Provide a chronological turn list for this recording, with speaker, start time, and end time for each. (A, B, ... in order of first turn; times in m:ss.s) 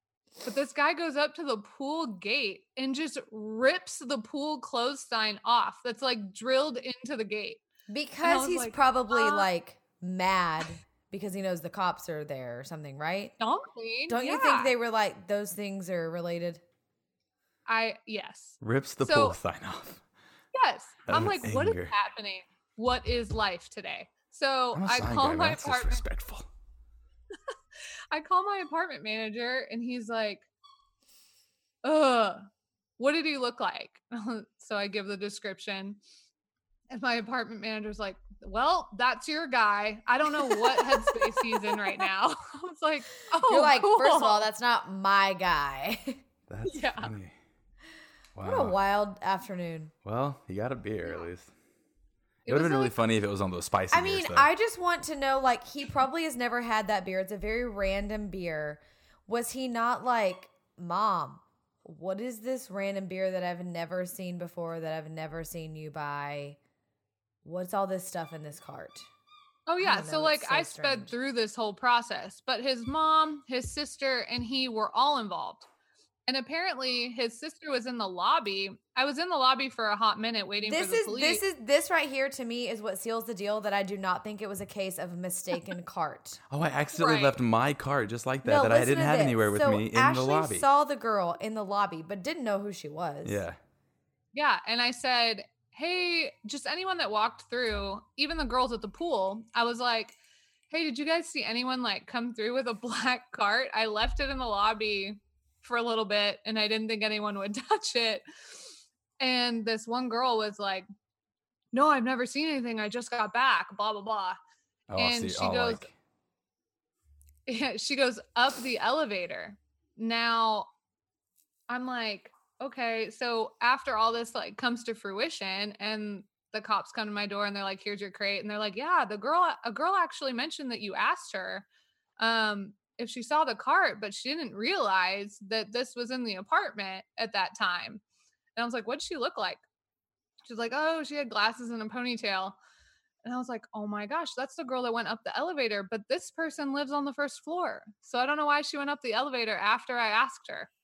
0:00.4-0:07.6 A
0:07.9-0:13.3 B
0:08.2-0:09.5 A
0:13.4-0:14.7 A
0:14.1-0:16.6 B
0:17.7-0:19.4 A
0:18.6-0:20.0 C
0:20.5-0:26.0 A
0:21.1-0:21.9 C
0:24.7-0:26.5 C
0:28.1-0:30.4 A
0:31.8-0:32.4 A
0:33.0-0:36.0 A
0:36.9-0:44.5 A
0:40.4-0:41.5 B
0:43.5-0:46.2 B
0:46.5-0:47.3 C
0:46.6-0:47.1 A
0:48.3-0:48.8 C
0:48.4-0:49.9 B
0:50.0-0:51.5 C
0:52.4-0:53.0 A
0:52.5-0:54.5 C
0:53.9-1:06.6 B
1:07.4-1:09.1 B
1:09.7-1:15.7 A
1:09.8-1:11.1 B
1:16.3-1:21.4 A
1:20.6-1:26.4 B
1:26.5-1:30.7 C
1:27.0-1:27.4 A
1:28.4-1:33.4 B
1:33.2-1:33.6 C
1:34.3-1:40.2 A
1:40.7-1:48.2 A
1:49.2-1:50.9 A
1:51.7-1:54.4 A
1:54.9-1:55.9 C
1:55.0-1:55.9 A
1:57.5-2:00.7 A
2:01.7-2:11.6 A
2:12.2-2:18.0 A
2:18.6-2:19.6 A
2:20.4-2:22.6 A
2:23.2-2:30.7 A